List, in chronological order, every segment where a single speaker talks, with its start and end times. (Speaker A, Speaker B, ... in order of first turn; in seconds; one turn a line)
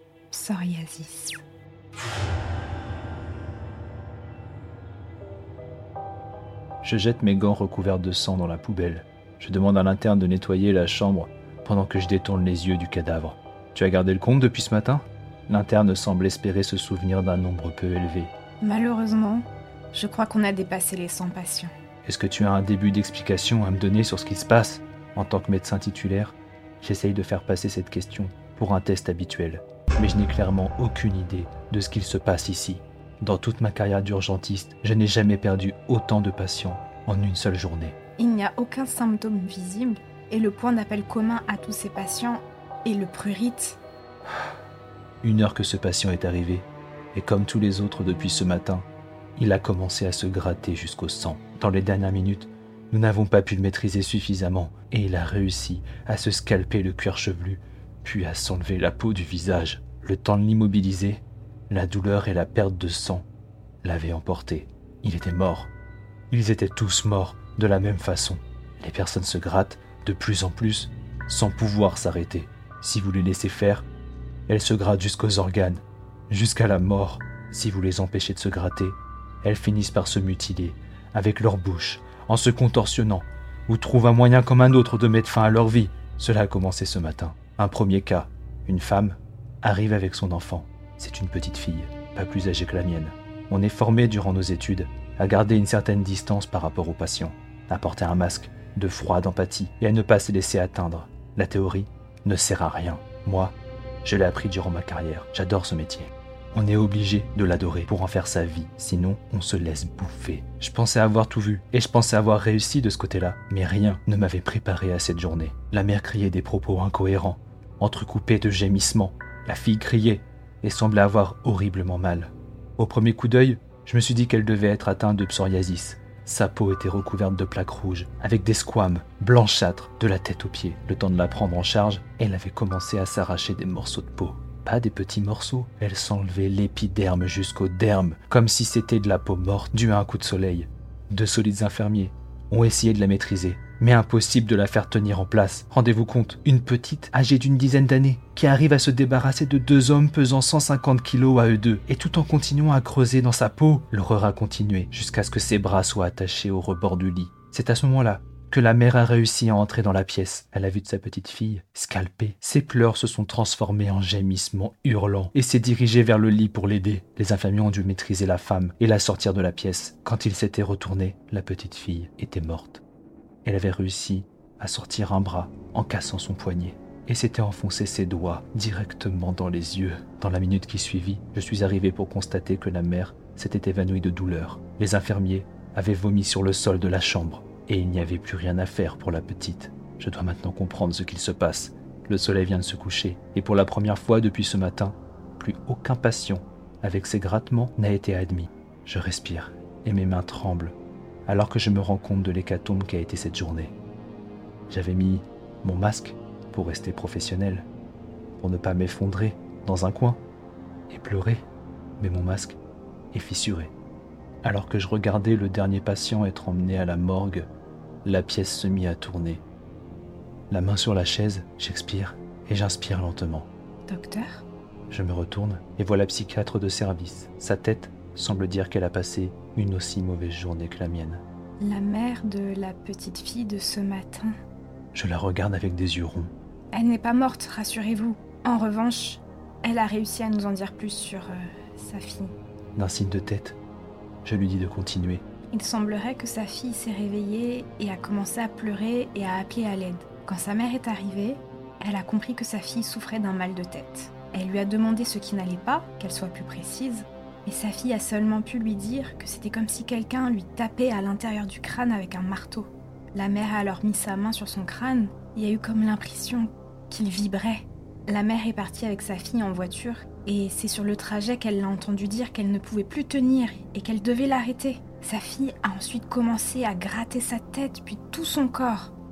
Speaker A: 0.3-1.4
Speaker B: 6.8-18.3
Speaker A: 18.6-21.7
Speaker B: 22.0-38.0
Speaker A: 38.2-43.8
Speaker B: 45.2-63.2
Speaker B: 63.8-65.7
Speaker B: 66.3-73.9
Speaker B: 74.5-172.8
Speaker B: 173.4-203.8
Speaker B: 204.7-207.7
Speaker B: 208.4-210.2
Speaker B: 210.9-211.4
Speaker B: 212.0-212.6
Speaker B: 213.1-213.7
Speaker B: 214.4-217.5
Speaker B: 218.0-219.4
Speaker B: 220.5-223.5
Speaker A: 223.9-224.4
Speaker B: 224.9-231.2
Speaker A: 231.6-234.4
Speaker B: 234.9-236.3
Speaker A: 236.7-242.3
Speaker B: 242.8-243.6
Speaker B: 244.2-245.2
Speaker A: 245.5-278.9